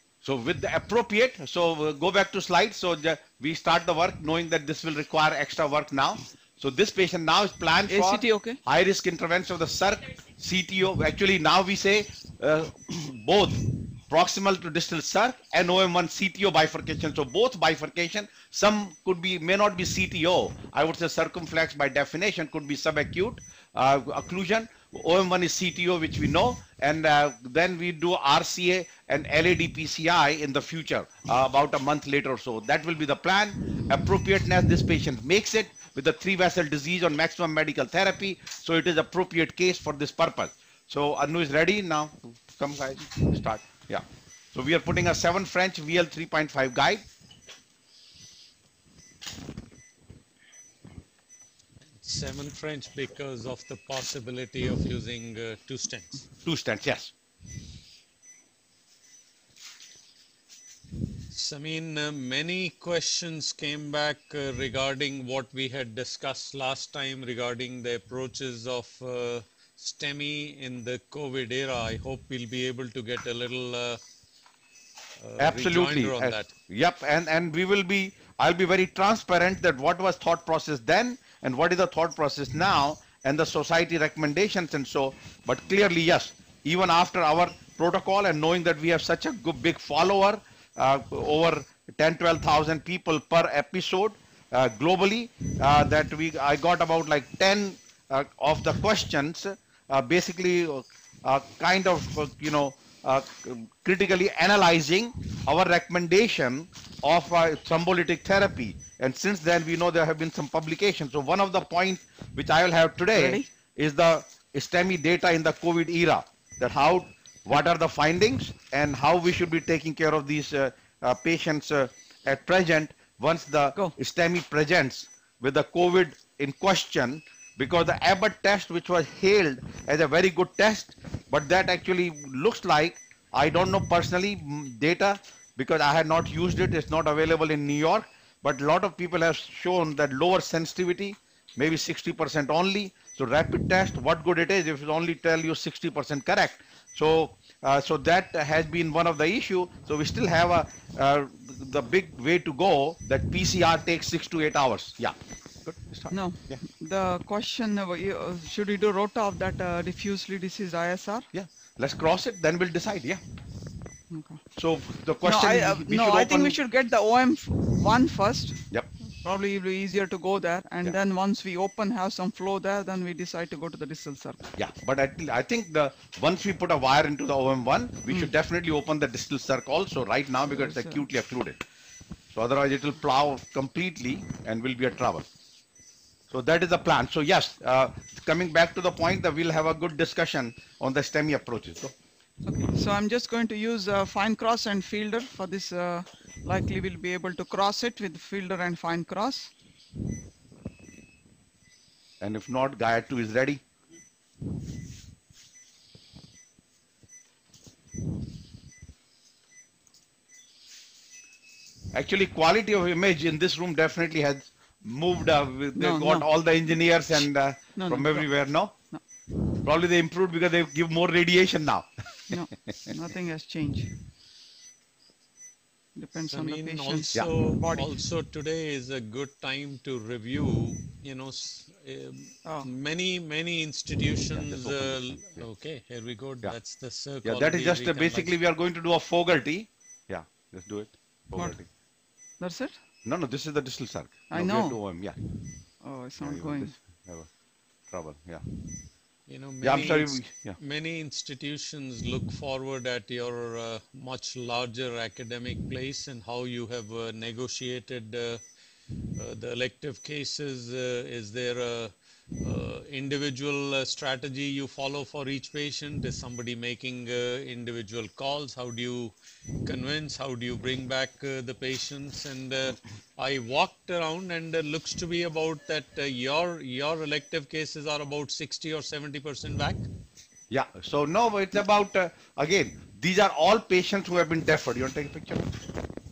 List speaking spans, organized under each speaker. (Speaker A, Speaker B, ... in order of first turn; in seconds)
Speaker A: 0.2-47.0, 56.4-57.1, 75.4-156.6, 161.3-163.2, 164.6-166.6, 174.5-181.6, 182.3-185.3, 186.3-191.9, 202.2-203.6, 211.9-218.7, 219.6-222.9, 234.3-235.4, 237.2-241.7, 243.0-245.2, 246.2-247.3, 247.9-248.4, 249.6-250.6, 280.5-285.6
Speaker B: 7.9-8.6, 113.1-113.5, 156.1-161.3, 164.1-164.4, 165.2-168.6, 169.2-174.5, 180.5-181.0, 192.4-199.5, 215.8-216.3, 217.8-218.2, 222.3-223.9, 225.9-227.9, 242.4-242.7, 244.3-244.8, 245.8-246.7
Speaker C: 51.9-56.2, 61.3-74.0, 75.2-76.5, 226.3-238.3, 249.3-258.4, 259.1-279.9